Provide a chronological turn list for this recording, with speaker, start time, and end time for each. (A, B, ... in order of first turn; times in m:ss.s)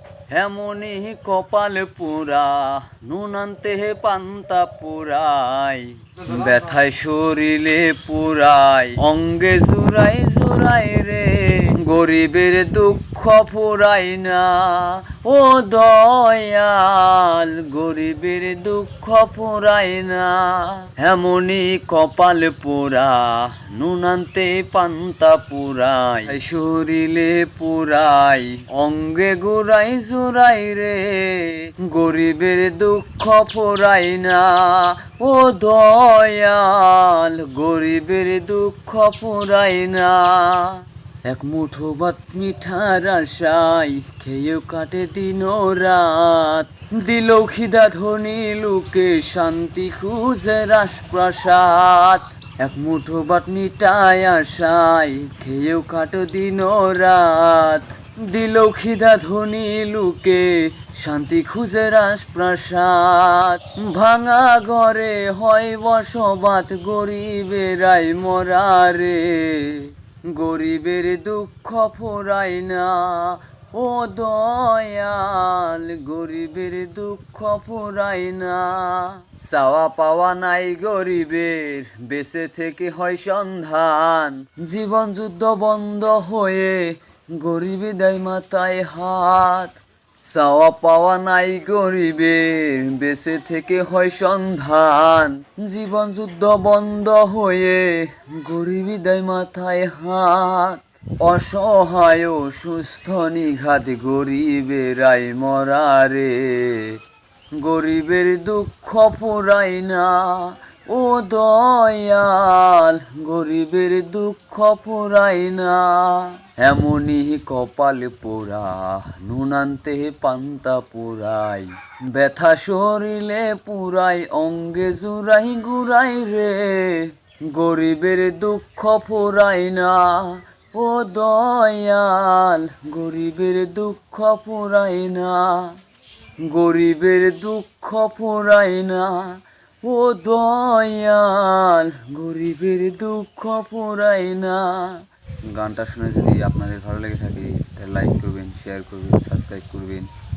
0:00.3-1:47.0 A
1:47.6-2:15.8 A
2:16.5-2:25.0 A
2:25.5-2:30.1 A